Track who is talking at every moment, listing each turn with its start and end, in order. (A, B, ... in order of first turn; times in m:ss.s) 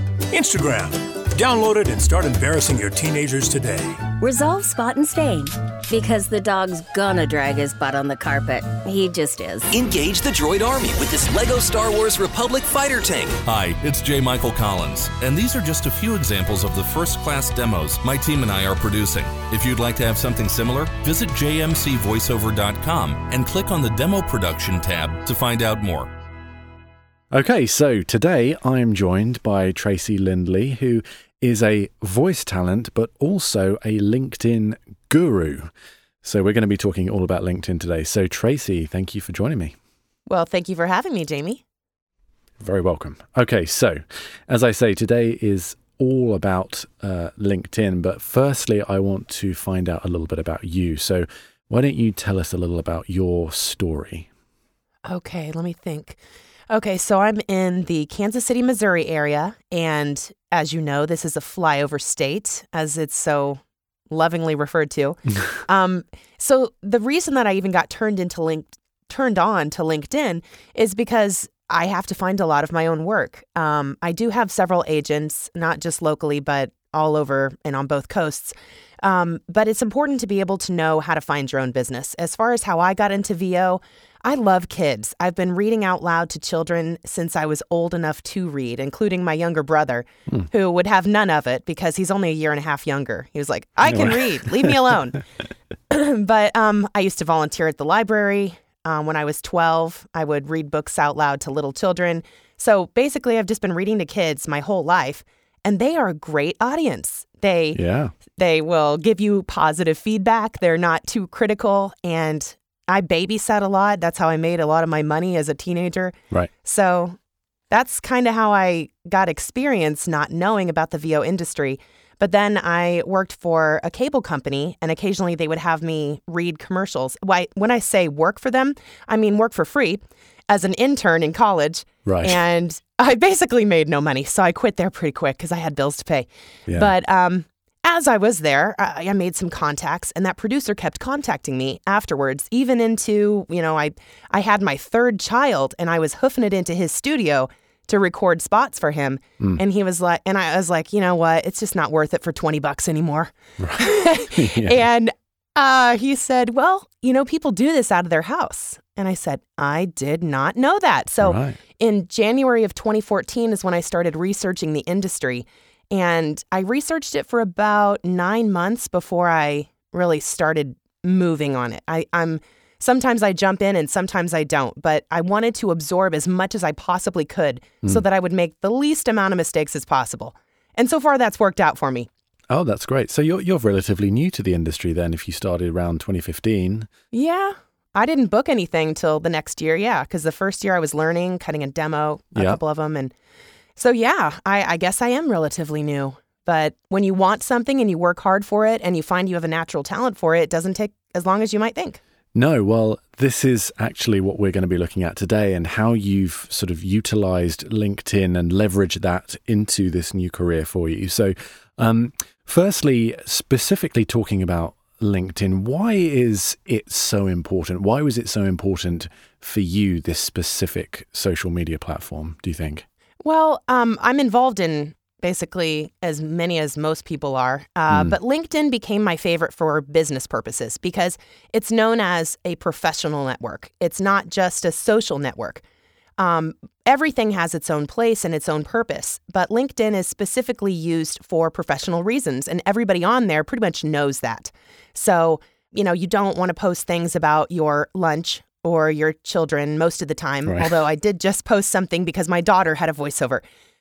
0:00.3-0:04.1 A
0:04.2-0:09.7 B
0:09.7-0:13.4 C
0:13.4-0:26.1 D
0:27.3-0:35.7 E
0:36.2-0:39.7 E
0:40.3-0:41.6 F
0:42.6-0:54.3 E
0:55.0-1:35.2 F
1:33.8-1:34.8 E
1:35.9-1:47.8 F
1:47.7-1:48.1 E
1:48.3-1:57.2 F
1:57.7-3:02.1 F
2:12.0-2:12.4 E
2:16.7-2:16.9 E
2:33.6-2:34.8 E
2:41.2-2:41.6 E
3:02.5-3:06.9 E
3:07.1-3:13.1 F
3:13.8-3:22.0 F
3:22.3-3:42.8 E
3:43.2-3:55.6 F
3:47.9-3:48.1 E
3:56.2-4:13.4 F
4:10.4-4:10.8 E